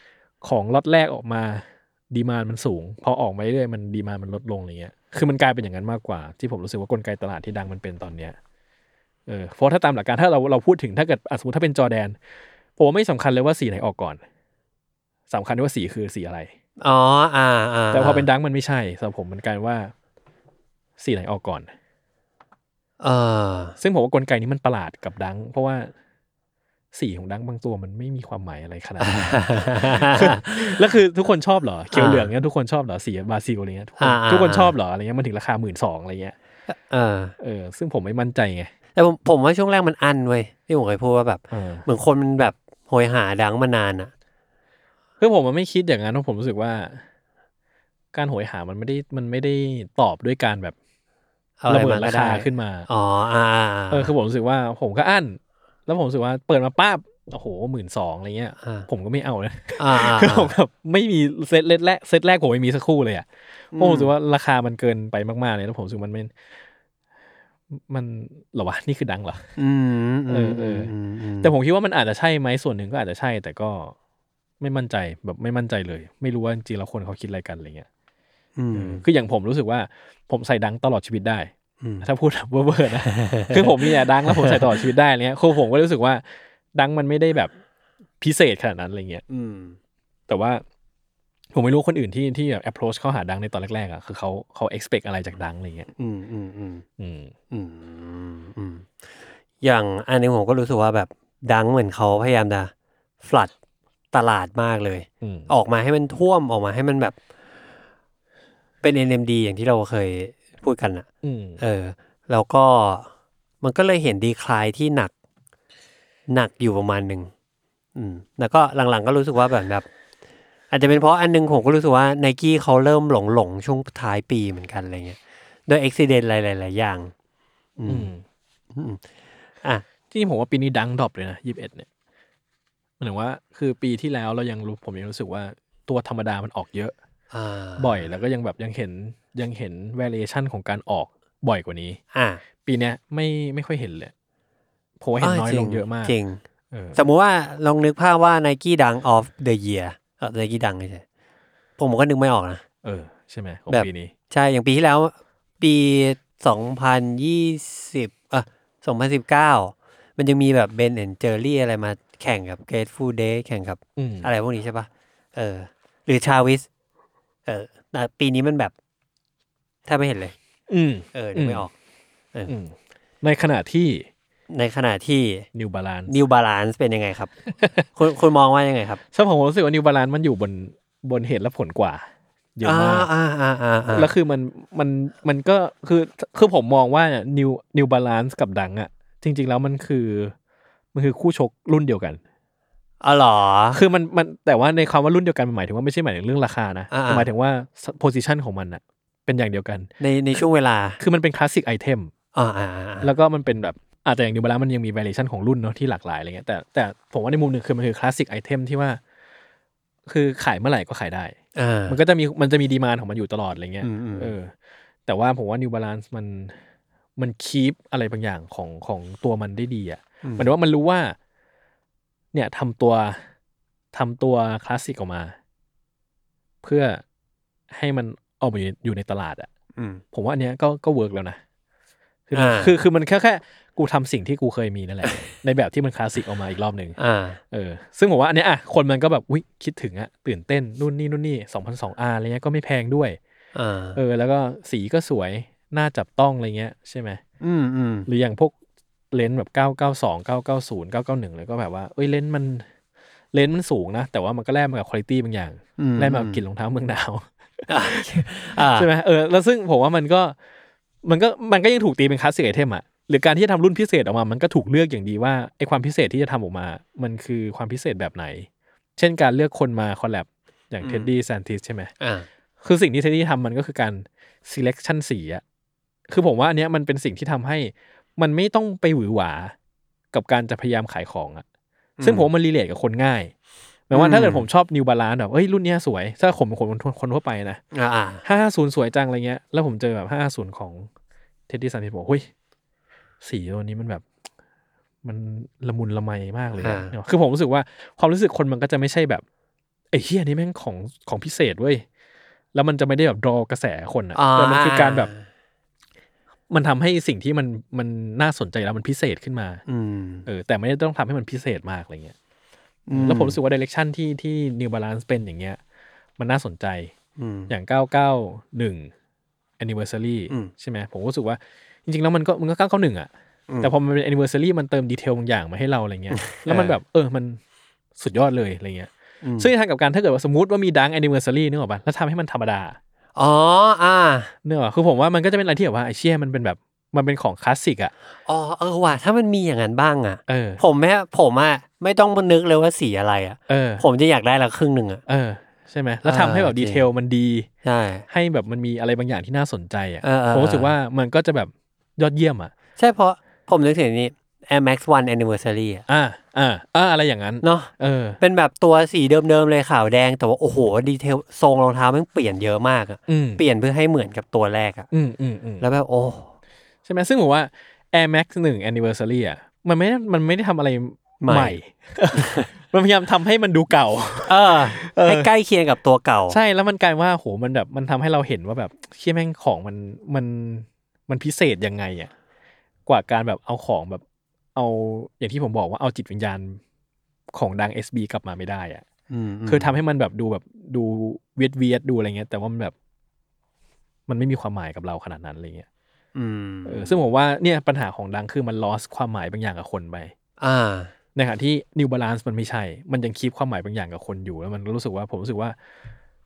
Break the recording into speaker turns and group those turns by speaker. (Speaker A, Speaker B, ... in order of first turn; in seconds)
Speaker A: 0.4-8.4, 9.3-12.2, 12.8-14.2, 15.3-16.5, 17.9-19.9, 21.0-21.7, 23.8-25.9, 26.9-36.4, 37.4-38.7, 41.5-41.9, 45.2-47.0, 48.1-50.8, 51.7-52.9, 53.9-66.3, 67.7-69.5, 70.3-74.0, 74.6-77.9, 78.7-81.5, 82.0-87.5, 88.2-89.2, 90.3-90.6, 91.5-95.9, 97.0-97.3, 105.2-105.5, 111.2-111.6, 127.9-128.2, 130.1-131.9, 133.0-136.9, 137.8-142.0, 142.7-144.1, 145.0-146.1, 146.7-147.0, 152.8-154.1, 164.0-164.3, 170.7-171.7, 172.5-174.1, 175.5-176.1, 177.6-177.9, 179.1-183.1, 183.9-190.3, 190.9-192.2, 193.7-199.9, 201.0-202.1, 203.0-209.0, 210.1-211.4, 211.9-214.5, 215.1-216.6, 217.2-221.2, 222.3-223.2, 223.9-225.3, 226.6-227.0, 227.7-229.5, 230.1-231.4, 232.3-237.0, 237.5-243.2, 243.9-247.2, 248.1-248.5, 249.1-252.7, 253.3-260.4, 261.0-271.9, 272.6-275.4, 276.1-279.6, 280.1-281.4, 282.0-283.3, 283.9-287.6, 288.2-290.9, 291.5-292.3, 293.2-294.1, 295.0-299.2, 299.9-301.9, 302.5-305.1, 306.5-309.6, 310.3-312.1, 312.9-315.6, 316.2-316.9, 317.5-318.9, 319.6-323.1, 323.6-327.4, 328.0-332.8, 334.4-337.9, 340.3-340.6, 343.5-343.8, 345.1-347.5, 348.1-352.5, 355.9-358.2, 363.1-363.4, 364.9-365.7, 366.9-375.3, 376.3-382.1, 382.9-384.0, 384.6-386.6, 387.3-388.8, 389.5-392.7, 394.1-395.7, 396.6-400.1, 401.1-405.6
Speaker B: 16.8-18.3, 23.0-23.8, 29.0-30.8, 31.9-32.3, 34.0-34.7, 36.7-37.4, 39.0-44.1, 51.6-54.1, 58.6-58.9, 59.8-60.5, 63.7-64.1, 69.6-71.5, 78.6-79.0, 81.8-82.1, 83.1-84.8, 89.3-89.8, 96.0-96.8, 97.5-98.9, 99.6-103.5, 104.1-107.2, 108.8-111.1, 111.6-113.1, 113.6-115.1, 116.3-117.3, 118.0-119.9, 120.7-127.1, 127.8-128.1, 128.7-129.0, 137.3-138.1, 142.1-142.4, 145.2-146.4, 146.9-151.0, 151.8-152.6, 153.7-166.7, 167.5-168.7, 169.9-170.3, 171.1-171.7, 174.5-175.5, 176.1-177.3, 177.9-179.0, 182.6-184.1, 193.0-193.8, 196.9-197.3, 200.0-201.0, 202.3-203.1, 211.6-212.0, 213.8-214.3, 220.2-220.5, 229.8-230.0, 232.3-232.8, 237.0-237.4, 243.6-244.0, 247.4-248.1, 255.8-256.4, 257.7-258.9, 270.8-271.1, 272.0-272.3, 282.0-282.3, 283.9-284.5, 287.7-288.2, 296.6-296.9, 304.1-305.2, 309.7-310.3, 312.9-313.4, 317.2-317.5, 326.1-326.8, 329.2-329.5, 333.2-334.3, 338.3-345.0, 346.1-346.8, 347.6-348.1, 350.0-350.7, 352.8-355.9, 357.4-364.9, 365.6-366.3, 371.2-371.6, 372.1-372.5, 374.2-376.4, 389.1-389.8, 396.1-397.0, 400.4-400.9